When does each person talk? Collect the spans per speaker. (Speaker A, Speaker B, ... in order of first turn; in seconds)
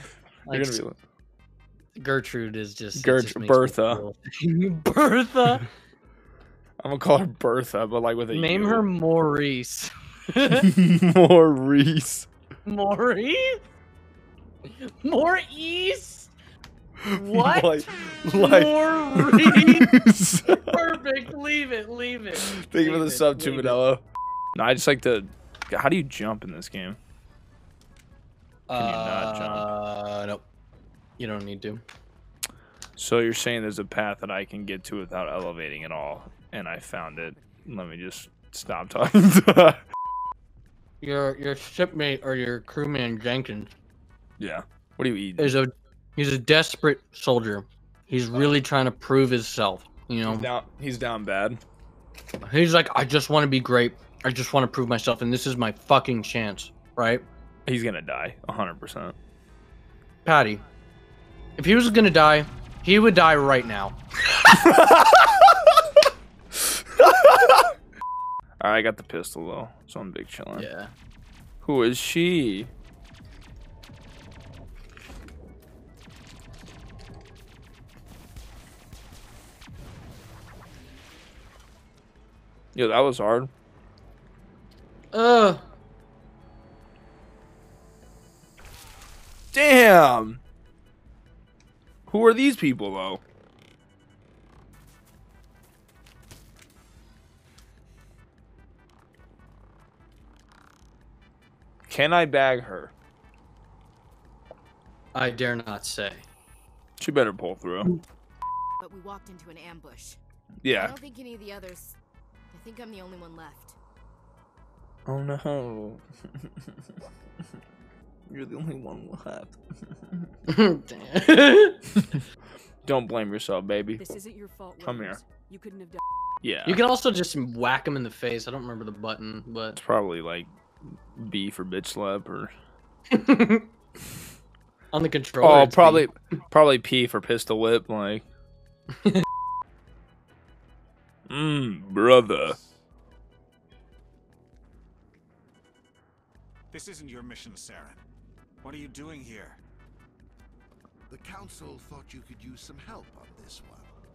Speaker A: 0.5-0.8, 1.9-5.7, 8.3-10.7, 12.6-13.6, 14.7-16.3, 17.1-19.9, 20.4-23.8, 28.7-30.4, 31.2-31.8, 41.0-43.7, 45.4-50.5, 52.4-57.2, 60.2-60.6, 61.6-64.0, 70.5-70.9, 85.1-85.6, 105.1-106.2, 120.5-121.8, 126.7-129.8, 133.1-133.7, 134.9-136.1
Speaker B: 0.5-0.9, 3.0-4.0, 6.8-8.8, 10.6-12.3, 17.0-20.9, 22.4-24.0, 24.6-27.0, 28.8-29.7, 33.0-39.8, 44.4-45.6, 50.3-51.6, 57.7-59.1, 64.5-65.5, 67.0-67.7, 68.6-70.7, 71.6-72.7, 82.7-83.5, 89.5-90.4, 92.1-93.2, 101.9-102.9, 107.0-108.0, 110.6-111.0, 115.1-116.0, 118.3-119.6, 122.8-124.0, 124.8-125.2, 126.4-126.8, 129.8-130.5, 131.1-132.5, 135.4-138.2, 141.3-142.6
Speaker C: 108.8-110.2, 110.7-112.0, 112.5-113.8
Speaker D: 124.0-126.0
Speaker E: 146.7-148.0, 148.6-149.6
Speaker F: 151.1-153.9